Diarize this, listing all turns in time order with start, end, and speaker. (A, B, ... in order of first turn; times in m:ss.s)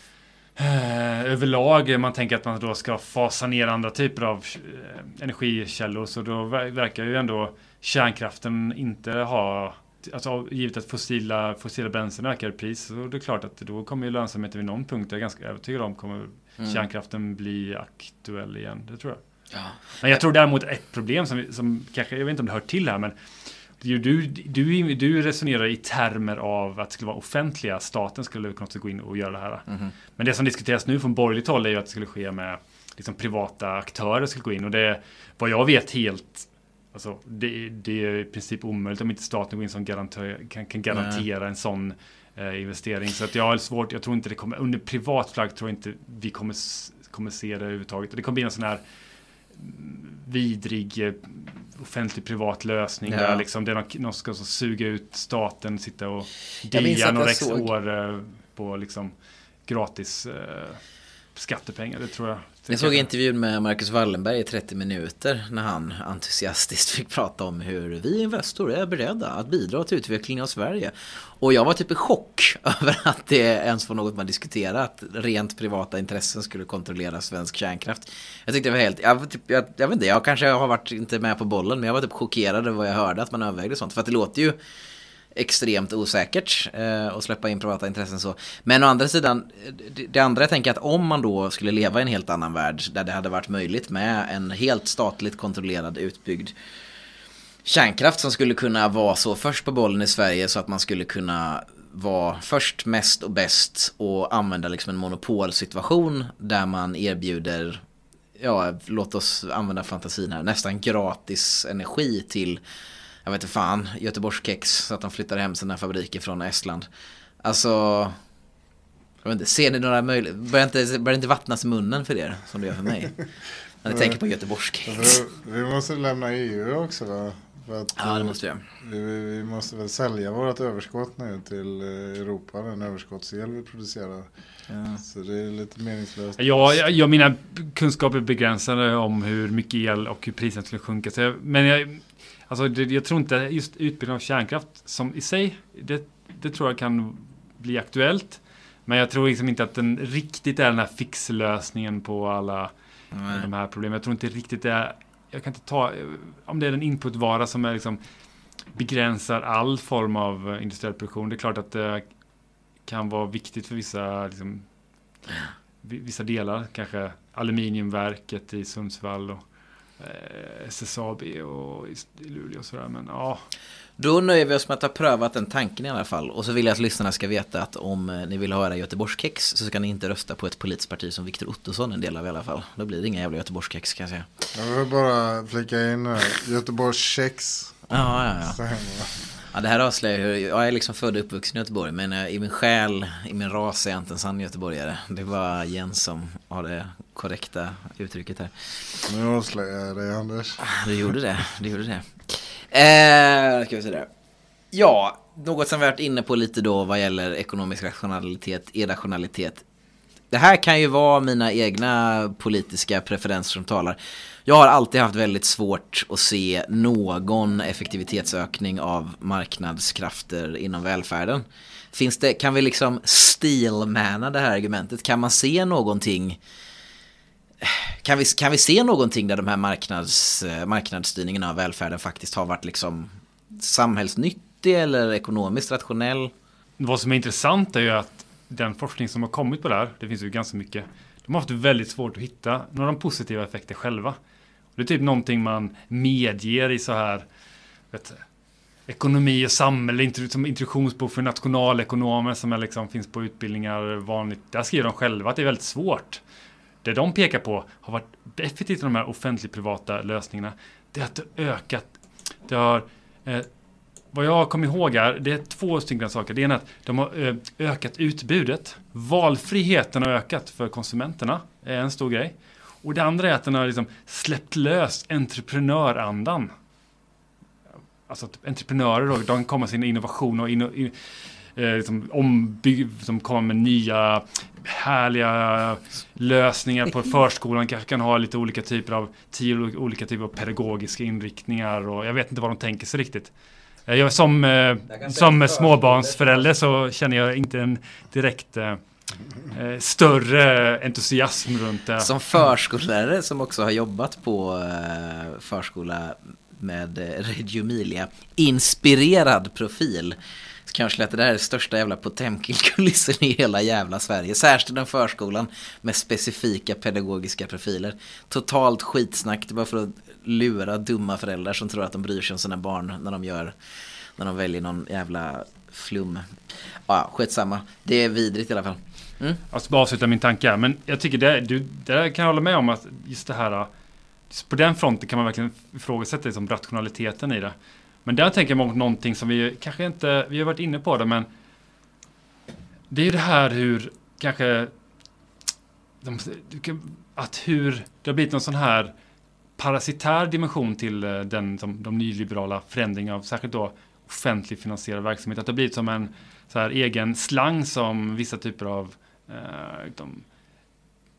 0:00.6-0:19.2 A
0:16.6-0:16.8 B
0:19.5-0:19.8 B
0:20.0-0:23.1 A
0:23.8-0:48.8 A
0:40.9-0:41.2 B
0:49.5-0:59.1 A
0:53.0-0:53.4 B
0:56.7-0:57.7 B
0:59.6-1:00.8 A
1:01.3-1:03.1 A
1:02.7-1:24.6 B
1:25.3-1:36.5 B
1:37.6-1:47.8 B
1:48.4-1:52.6 B
1:53.2-1:56.9 B
1:57.4-1:58.2 B
1:59.2-2:03.2 B
2:03.8-2:05.2 B
2:03.9-2:04.2 C
2:04.8-2:14.3 C
2:08.0-2:08.6 B
2:14.7-2:15.0 B
2:15.0-2:16.7 C
2:16.4-2:32.7 A
2:33.1-2:33.5 B
2:33.3-2:38.0 A
2:38.7-2:42.1 A
2:42.8-2:44.6 A
2:45.8-2:49.4 A
2:50.0-2:53.4 A
2:54.0-3:04.3 B
3:04.5-3:07.8 C
3:07.9-3:08.6 B
3:08.5-3:09.1 C
3:09.5-3:19.0 B
3:19.1-3:20.6 C
3:20.6-3:24.1 B
3:24.7-3:29.6 B
3:30.3-3:46.4 B
3:47.6-3:56.3 B
3:56.8-4:04.2 A
4:04.8-4:07.2 A
4:07.9-4:08.2 A
4:08.9-4:16.2 A
4:16.8-4:21.9 A
4:22.5-4:23.5 A
4:24.1-4:36.5 A
4:38.1-4:41.0 A
4:41.5-4:53.3 A
4:53.9-4:58.8 A
4:54.9-4:56.4 B
4:59.5-5:02.1 A
5:02.0-5:10.2 B
5:10.7-5:23.5 B
5:24.2-5:26.4 B
5:26.9-5:29.4 B
5:29.5-5:33.7 A
5:34.3-5:41.3 A
5:42.9-5:44.7 A
5:46.0-5:48.9 A
5:49.6-6:00.2 A